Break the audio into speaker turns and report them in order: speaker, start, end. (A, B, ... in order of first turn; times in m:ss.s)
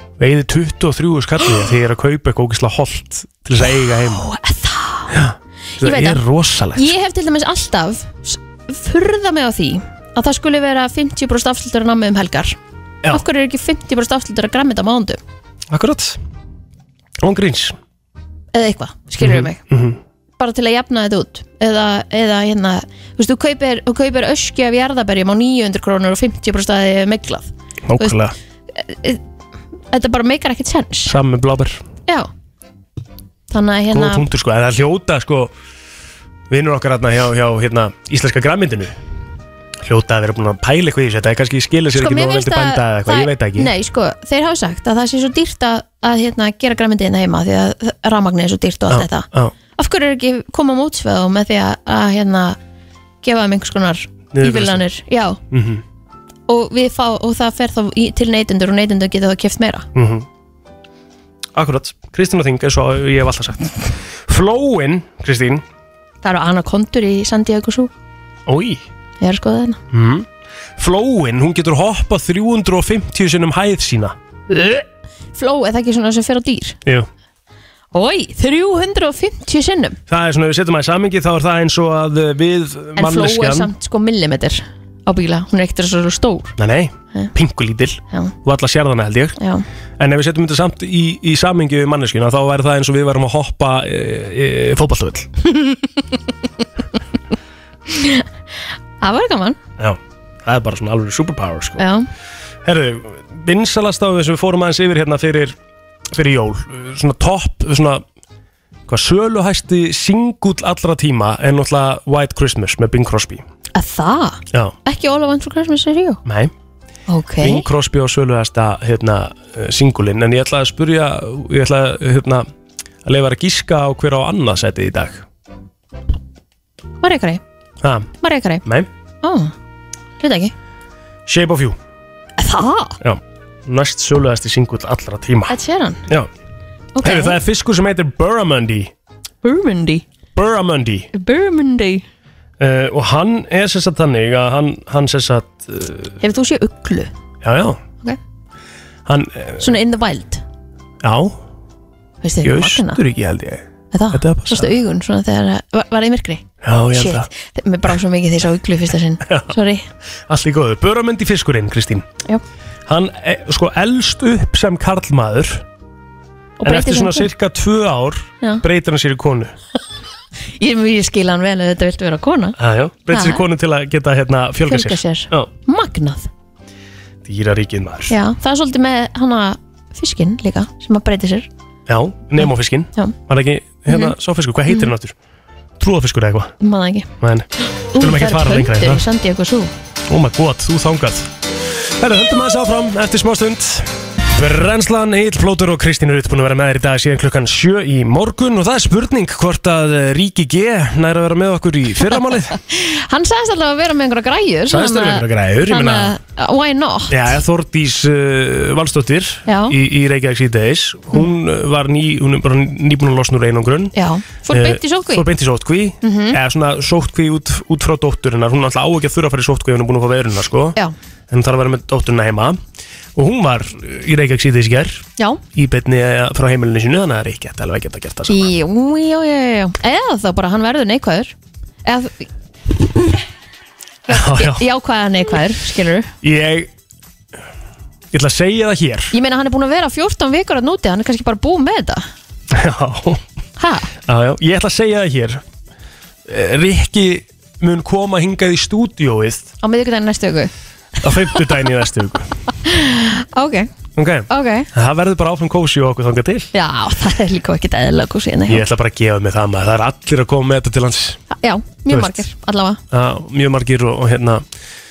0:00.2-0:04.2 A
0:03.9-0:05.2 B
0:05.1-0:06.9 A
0:05.8-0:06.2 B
0:06.8-0:12.6 B
0:13.1-0:15.2 B
0:15.7-0:16.2 A
0:17.2-0:17.8 A
0:18.5-0:19.6 B
0:19.2-0:20.0 A
0:20.4-0:28.2 B
0:27.9-0:28.4 A
0:28.7-0:29.2 B
0:29.9-0:31.2 B
0:31.1-0:31.8 A
0:33.5-0:34.2 B
0:33.9-0:35.5 A
0:36.5-0:39.0 A
0:39.8-0:43.7 A
0:41.9-0:52.6 B
0:48.9-0:49.5 A
0:53.2-0:55.4 B
0:54.3-0:54.8 A
0:55.5-0:55.8 A
0:56.5-0:59.9 B
1:00.0-1:00.3 A
1:01.5-1:05.6 A
1:06.2-1:07.9 B
1:08.5-1:08.8 A
1:09.2-1:09.8 B
1:09.9-1:14.2 A
1:15.4-1:16.8 B
1:17.9-1:20.0 B
1:20.1-1:23.7 A
1:23.0-1:26.6 B
1:26.6-1:29.4 A
1:29.4-1:29.6 B
1:30.0-1:35.3 A
1:37.9-1:38.3 B
1:39.0-1:39.6 B
1:39.8-1:41.8 A
1:41.8-1:42.1 B
1:42.6-1:45.6 A
1:46.1-1:48.0 A
1:48.9-1:53.4 A
1:53.8-1:56.2 B
1:56.2-1:56.5 A
1:57.1-1:57.7 B
1:57.4-2:02.5 A
2:03.0-2:05.2 A
2:07.0-2:07.4 B
2:07.8-2:08.1 A
2:08.2-2:08.6 B
2:08.6-2:08.9 A
2:09.2-2:09.5 B
2:10.2-2:10.5 B
2:11.3-2:11.8 A
2:12.4-2:13.0 B
2:13.0-2:15.6 A
2:15.5-2:16.1 B
2:17.0-2:17.4 B
2:17.0-2:18.9 A
2:19.4-2:20.0 B
2:20.4-2:21.1 A
2:21.1-2:22.0 B
2:22.6-2:26.2 A
2:26.2-2:27.1 B
2:27.4-2:27.8 A
2:29.1-2:29.8 A
2:29.6-2:30.4 B
2:31.0-2:31.4 A
2:32.2-2:33.0 B
2:32.4-2:34.7 A
2:33.9-2:39.9 B
2:36.6-2:37.3 A
2:39.2-2:39.6 A
2:40.3-2:42.1 A
2:42.9-2:45.6 A
2:46.6-2:47.3 B
2:46.6-2:49.5 A
2:50.6-2:52.6 B
2:52.6-2:55.5 A
2:53.1-2:53.4 B
2:54.7-2:56.3 B
2:57.2-2:58.2 A
2:58.1-3:01.5 B
3:01.9-3:05.2 A
3:02.4-3:03.2 B
3:03.9-3:04.1 B
3:05.8-3:06.5 A
3:06.6-3:07.1 B
3:07.2-3:09.0 A
3:07.9-3:09.7 B
3:10.1-3:22.6 A
3:22.6-3:27.2 B
3:24.7-3:26.2 A
3:27.1-3:34.0 A
3:29.5-3:29.8 B
3:33.9-3:35.3 B
3:34.5-3:40.8 A
3:36.0-3:36.4 B
3:41.3-3:42.6 A
3:43.2-3:48.5 A
3:48.3-3:51.3 B
3:51.8-3:52.3 B
3:54.1-3:56.1 B
3:54.1-3:54.7 A
3:56.2-3:56.7 A
3:58.1-3:59.1 A
3:59.1-4:02.0 B
4:02.5-4:03.2 A
4:03.6-4:03.9 B
4:04.1-4:05.4 A
4:06.3-4:09.5 A
4:09.6-4:10.5 B
4:11.0-4:12.3 A
4:12.6-4:13.7 B
4:14.0-4:16.5 A
4:14.3-4:14.7 B
4:16.5-4:18.6 B
4:18.5-4:21.2 A
4:21.3-4:22.8 B
4:21.9-4:22.2 A
4:22.9-4:24.4 A